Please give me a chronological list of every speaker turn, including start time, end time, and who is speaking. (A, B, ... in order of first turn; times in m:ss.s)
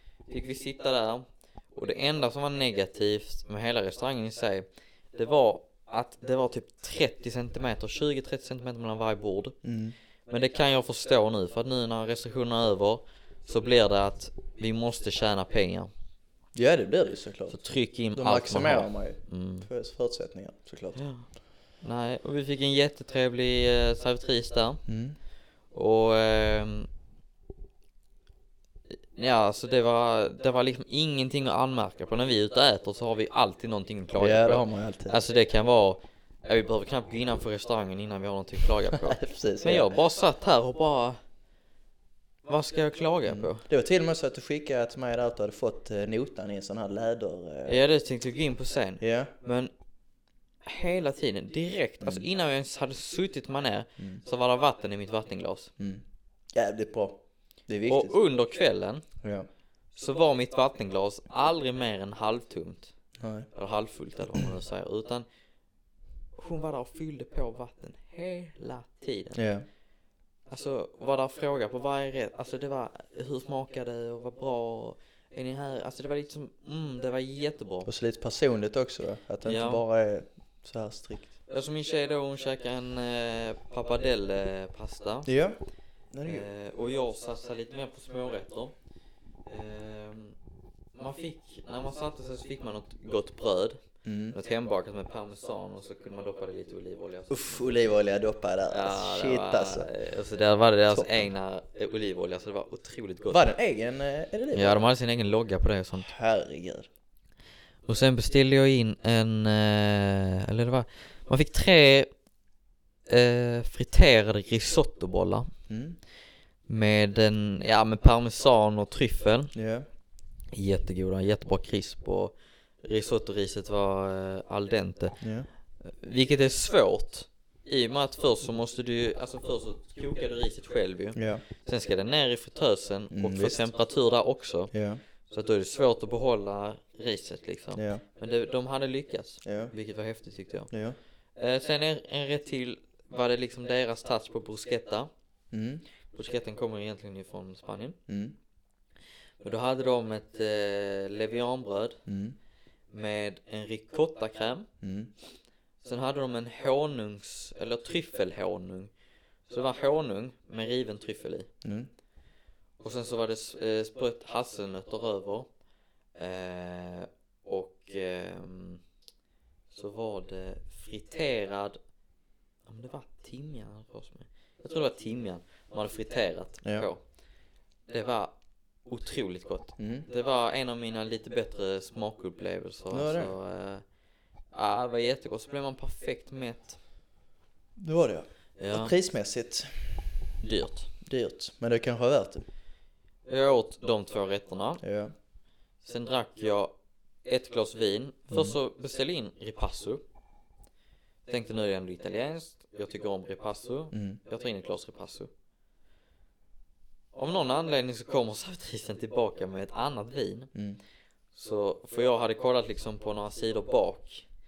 0:00.3-0:09.6 A
0:09.6-0:09.9 B
0:10.3-0:15.9 A
0:16.5-0:17.6 B
0:17.5-0:19.7 A
0:18.1-0:21.0 B
0:21.0-0:21.2 A
0:21.8-0:24.8 A
0:24.9-0:25.2 B
0:25.7-0:26.9 A
0:29.1-0:41.2 A
0:34.2-0:35.2 B
0:38.9-0:39.9 B
0:42.5-0:43.6 A
0:43.2-0:47.8 B
0:47.7-0:49.7 A
0:49.0-0:49.3 B
0:50.6-0:55.7 A
0:55.8-0:58.1 B
0:57.9-0:59.0 A
0:59.9-1:02.9 A
1:03.2-1:03.5 B
1:03.5-1:05.2 A
1:06.3-1:09.4 A
1:09.3-1:09.6 B
1:10.5-1:17.9 A
1:17.8-1:21.3 B
1:19.4-1:19.8 A
1:21.5-1:25.3 A
1:25.2-1:25.6 B
1:26.1-1:26.4 B
1:26.2-1:28.7 A
1:29.4-1:30.3 A
1:30.9-1:33.8 A
1:34.0-1:34.4 B
1:34.3-1:37.7 A
1:37.3-1:39.9 B
1:38.7-1:43.5 A
1:40.9-1:41.3 B
1:43.3-1:44.8 B
1:44.5-1:46.1 A
1:46.0-1:46.9 B
1:47.9-1:52.1 A
1:53.1-1:55.5 A
1:55.7-1:56.0 B
1:56.7-1:59.5 A
1:59.5-1:59.8 B
2:00.5-2:05.2 A
2:05.2-2:05.5 B
2:06.0-2:14.7 A
2:11.1-2:11.4 B
2:13.1-2:13.6 B
2:14.7-2:15.0 B
2:15.3-2:20.7 A
2:17.7-2:18.0 B
2:19.4-2:19.7 B
2:20.7-2:21.0 B
2:21.4-2:25.1 A
2:25.5-2:25.8 B
2:26.1-2:28.0 A
2:28.1-2:28.4 B
2:29.4-2:32.0 A
2:32.1-2:32.4 B
2:32.9-2:34.7 A
2:34.8-2:35.1 B
2:35.8-2:38.9 A
2:39.5-2:41.5 A
2:41.6-2:41.9 B
2:42.8-2:45.5 A
2:46.2-2:48.8 A
2:49.7-2:51.8 A
2:52.6-2:57.0 A
2:56.6-2:56.9 B
2:57.9-2:58.3 A
2:58.8-3:03.8 A
2:59.8-3:00.1 B
3:02.9-3:03.3 B
3:04.5-3:06.8 A
3:07.8-3:09.7 B
3:08.6-3:08.9 A
3:10.4-3:10.9 A
3:11.0-3:12.4 B
3:13.3-3:14.8 A
3:14.8-3:15.1 B
3:15.8-3:16.7 A
3:17.2-3:20.0 A
3:21.3-3:25.3 A
3:23.9-3:24.2 B
3:27.1-3:30.5 A
3:30.5-3:30.8 B
3:31.3-3:34.2 A